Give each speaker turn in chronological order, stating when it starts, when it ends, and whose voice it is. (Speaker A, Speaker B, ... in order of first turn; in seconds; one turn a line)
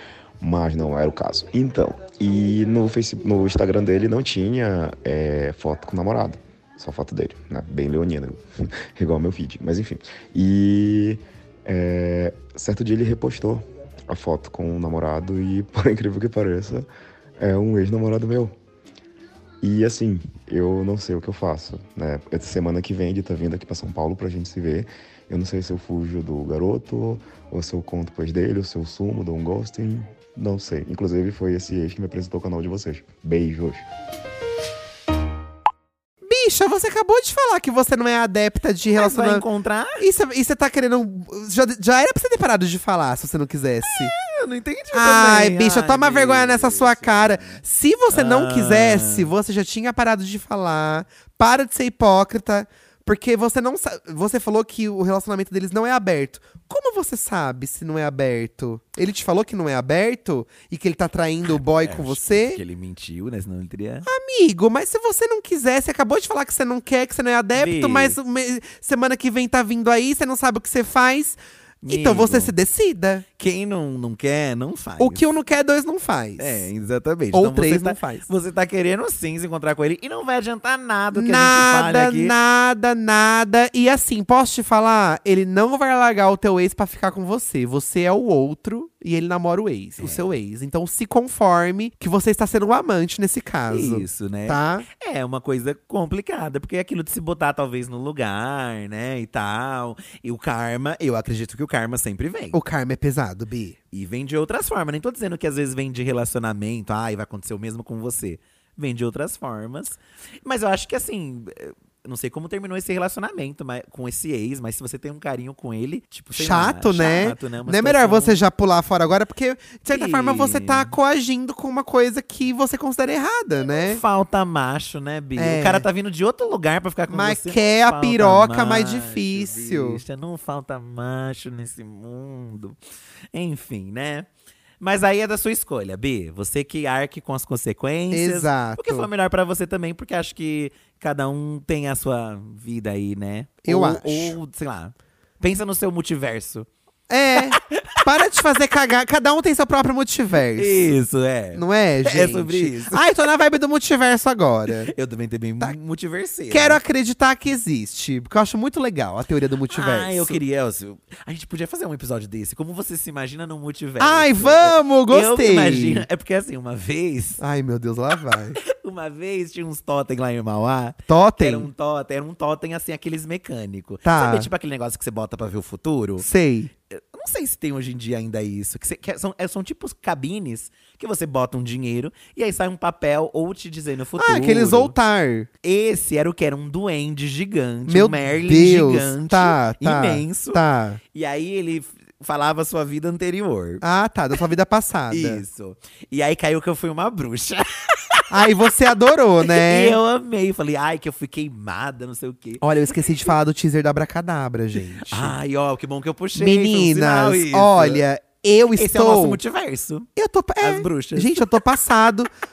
Speaker A: 0.4-16.9
Speaker A: 17.4-18.5
Speaker A: 19.6-33.8
Speaker B: 36.2-39.5
Speaker C: 39.0-40.0
Speaker B: 40.0-44.1
Speaker C: 43.9-49.3
Speaker B: 44.9-62.6
Speaker C: 61.5-64.1
Speaker B: 64.1-73.2
Speaker C: 67.5-68.2
Speaker C: 71.8-72.5
Speaker C: 73.4-75.3
Speaker B: 75.0-76.7
Speaker C: 76.4-82.3
Speaker B: 77.3-78.3
Speaker B: 81.1-94.9
Speaker C: 90.0-90.3
Speaker C: 93.7-102.6
Speaker B: 102.5-103.8
Speaker C: 103.9-118.4
Speaker B: 116.3-124.0
Speaker C: 119.9-121.0
Speaker C: 123.7-132.8
Speaker B: 125.4-125.8
Speaker B: 127.1-130.0
Speaker C: 133.3-134.3
Speaker C: 134.8-146.7
Speaker B: 138.1-139.1
Speaker B: 143.7-144.4
Speaker B: 147.1-150.8
Speaker C: 147.4-148.0
Speaker C: 150.6-153.0
Speaker B: 151.5-154.9
Speaker C: 154.8-156.8
Speaker B: 156.5-160.4
Speaker C: 159.7-167.4
Speaker B: 164.0-166.1
Speaker B: 167.4-168.6
Speaker C: 168.6-176.3
Speaker B: 171.1-171.7
Speaker B: 174.1-174.5
Speaker B: 176.2-176.7
Speaker C: 176.9-184.9
Speaker B: 184.2-185.5
Speaker C: 185.6-190.6
Speaker B: 187.9-191.0
Speaker C: 191.1-193.8
Speaker B: 193.8-195.4
Speaker C: 195.1-198.4
Speaker B: 198.3-200.0
Speaker C: 199.4-202.7
Speaker B: 202.6-205.3
Speaker C: 205.0-208.0
Speaker B: 206.3-209.4
Speaker C: 208.7-210.1
Speaker B: 210.2-212.3
Speaker C: 210.6-211.5